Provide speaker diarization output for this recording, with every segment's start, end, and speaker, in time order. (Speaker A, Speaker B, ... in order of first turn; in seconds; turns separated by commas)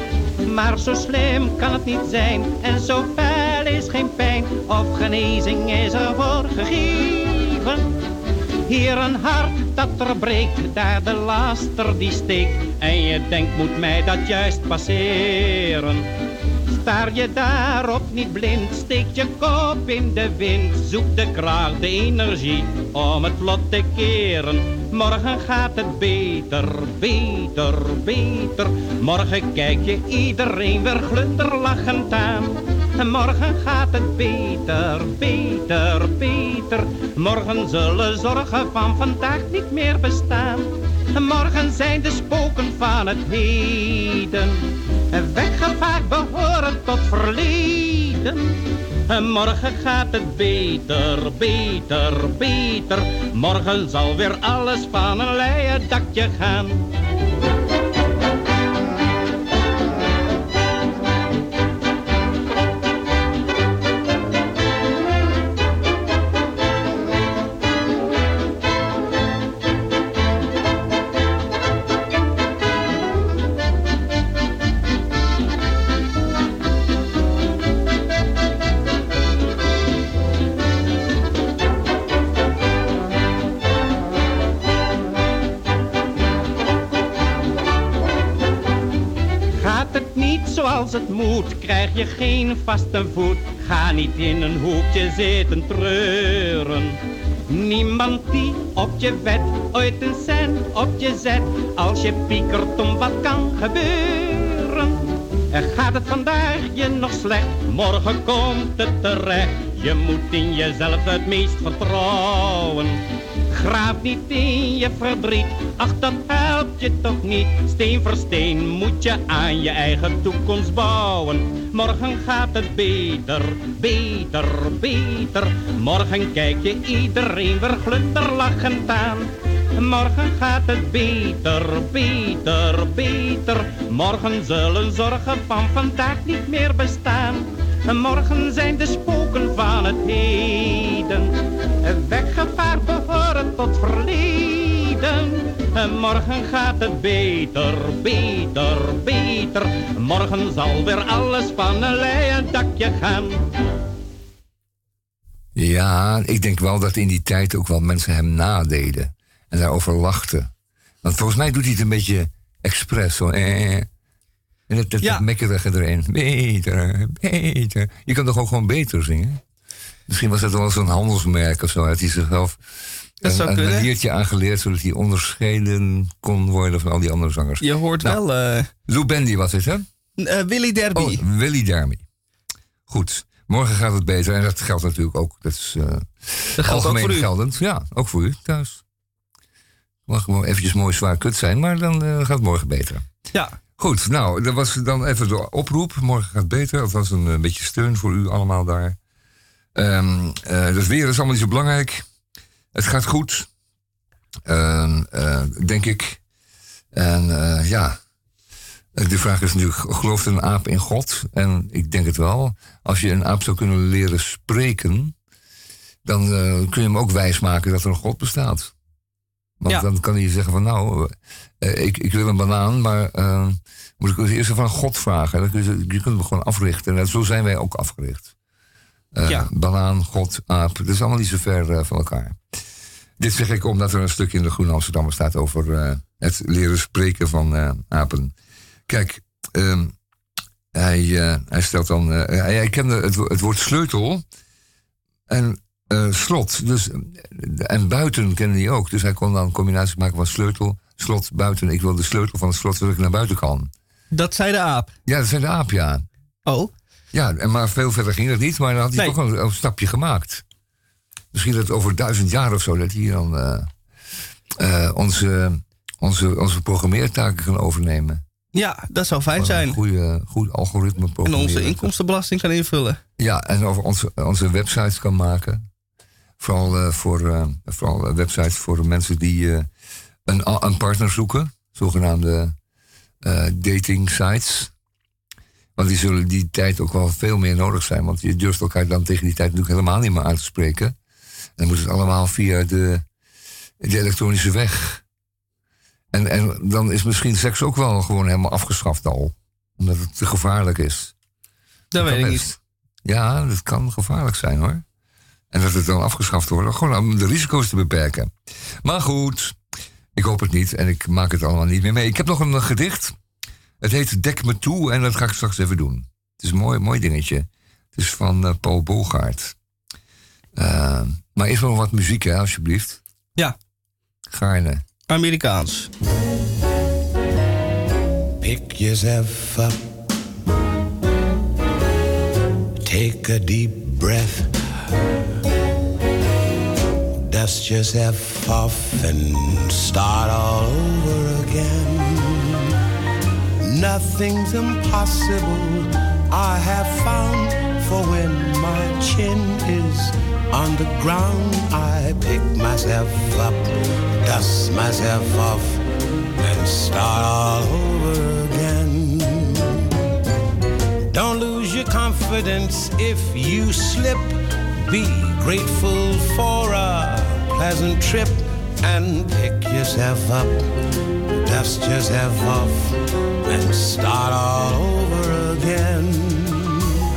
Speaker A: 0.5-8.0, Speaker A: 8.7-16.1, Speaker A: 16.7-48.5, Speaker A: 49.1-56.9, Speaker A: 89.6-153.4, Speaker B: 155.6-160.5, Speaker B: 161.0-163.9, Speaker B: 164.7-169.4, Speaker B: 170.1-172.6, Speaker B: 173.2-178.2, Speaker C: 173.2-173.9, Speaker C: 177.6-178.7, Speaker B: 178.9-179.9, Speaker C: 180.2-181.2, Speaker B: 181.0-182.1, Speaker B: 182.9-188.8, Speaker C: 186.6-187.3, Speaker B: 190.1-193.1, Speaker B: 193.8-199.0, Speaker B: 199.8-202.1, Speaker B: 202.7-203.5, Speaker B: 204.5-206.2, Speaker B: 206.9-208.0, Speaker B: 208.9-215.1, Speaker B: 216.1-218.7, Speaker B: 219.6-228.3, Speaker B: 229.1-232.4, Speaker B: 233.2-238.3, Speaker B: 238.9-239.9, Speaker B: 240.7-244.2, Speaker B: 245.3-253.7, Speaker C: 254.1-254.9, Speaker B: 255.1-256.1, Speaker C: 256.5-256.7, Speaker B: 257.1-260.4, Speaker B: 261.3-263.7, Speaker B: 264.5-268.2, Speaker C: 268.5-269.8, Speaker B: 269.4-271.9, Speaker C: 271.2-273.0, Speaker B: 273.2-275.6, Speaker B: 276.4-279.7, Speaker B: 280.3-282.6, Speaker B: 283.2-284.7, Speaker B: 285.8-290.9, Speaker B: 291.6-293.1, Speaker B: 293.8-295.0, Speaker B: 296.1-301.1, Speaker C: 301.9-302.5, Speaker B: 301.9-304.8, Speaker B: 305.5-309.6, Speaker B: 310.1-313.1, Speaker B: 313.8-319.6, Speaker B: 320.6-323.0, Speaker B: 324.3-324.8, Speaker C: 325.1-325.9, Speaker D: 328.4-329.8, Speaker D: 332.8-335.1, Speaker D: 337.1-342.7, Speaker D: 343.6-355.8, Speaker D: 356.4-359.8, Speaker D: 361.1-370.7, Speaker D: 371.2-376.9